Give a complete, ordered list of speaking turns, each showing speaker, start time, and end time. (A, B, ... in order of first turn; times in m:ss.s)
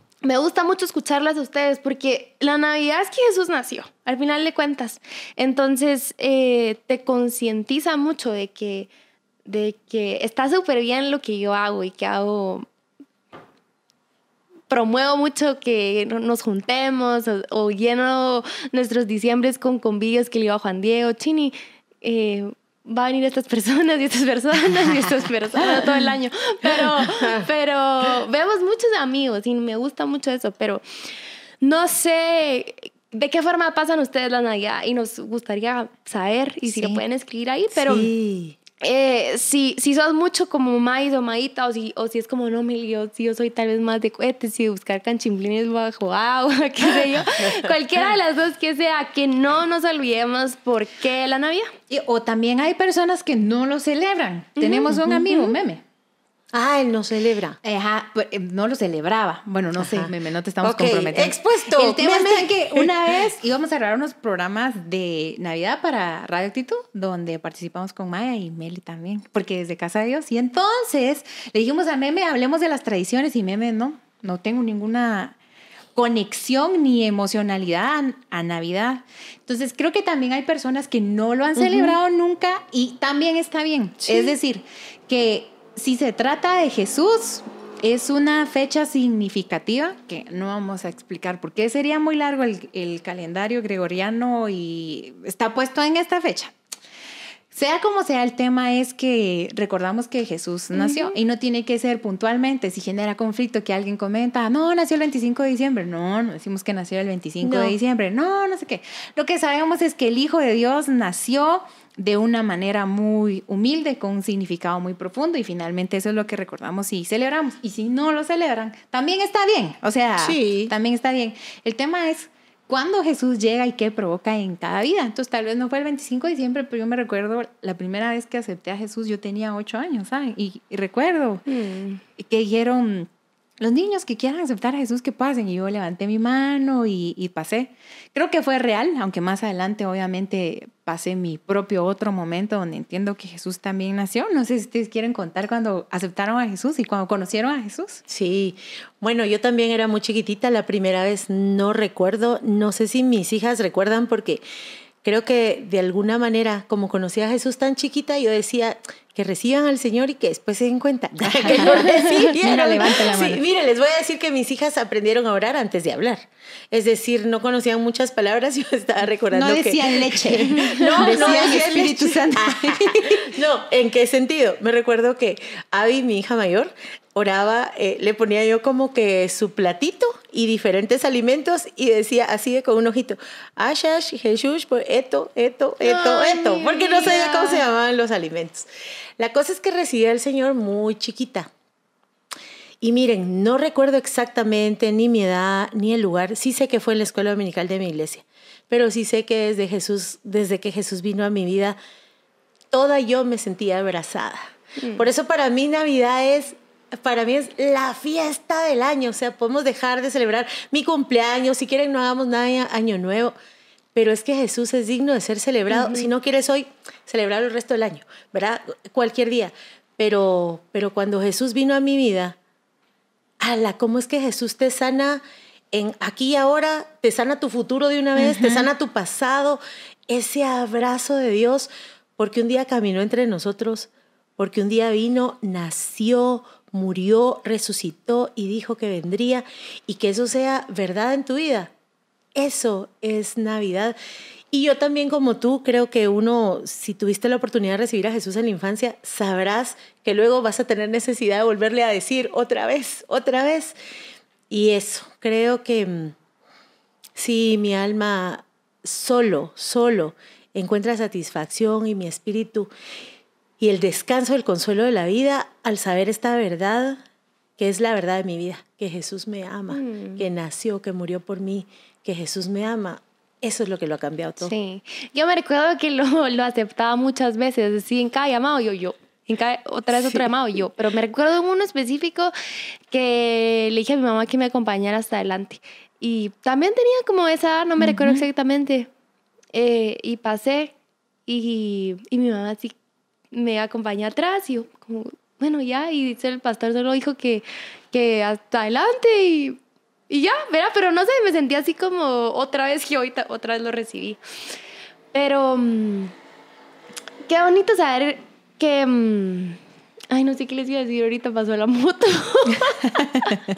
0:00.2-0:08.9 A
0:09.5-0:12.7 A
0:14.7-0:30.8 A
0:26.8-0:27.5 B
0:31.6-0:38.1 A
0:36.6-0:37.0 C
0:37.7-0:38.6 B
0:38.8-0:51.7 A
0:51.9-0:55.8 C
0:54.6-0:55.5 A
0:54.9-0:55.2 B
0:56.5-0:57.6 B
0:57.6-1:15.4 C
0:59.8-1:02.9 B
1:16.0-1:36.5 C
1:21.6-1:21.9 B
1:37.5-2:11.4 C
1:40.8-1:41.1 A
1:47.4-1:47.8 B
2:00.2-2:00.7 B
2:11.5-2:12.0 A
2:12.2-2:13.1 C
2:13.6-2:28.0 C
2:28.1-2:34.4 B
2:35.0-3:08.7 B
2:41.3-2:43.4 C
2:41.6-2:41.9 A
2:49.3-2:53.3 C
2:50.5-2:51.6 A
3:05.8-3:07.6 A
3:09.2-3:11.5 B
3:12.8-3:21.8 B
3:22.7-3:33.4 B
3:24.8-3:25.0 A
3:34.0-3:42.4 B
3:35.7-3:36.1 A
3:43.4-4:01.7 B
3:48.1-3:48.7 C
4:02.4-4:04.0 B
4:04.5-4:13.8 B
4:14.5-4:16.1 B
4:17.2-4:22.7 B
4:23.6-4:27.0 B
4:27.6-4:34.5 B
4:29.7-4:30.2 A
4:34.4-4:42.3 A
4:42.9-4:48.9 A
4:47.8-4:48.2 C
4:49.5-4:50.7 A
4:51.3-4:52.8 A
4:53.3-5:04.2 A
5:05.1-5:06.1 A
5:07.2-5:09.6 A
5:10.1-5:13.4 A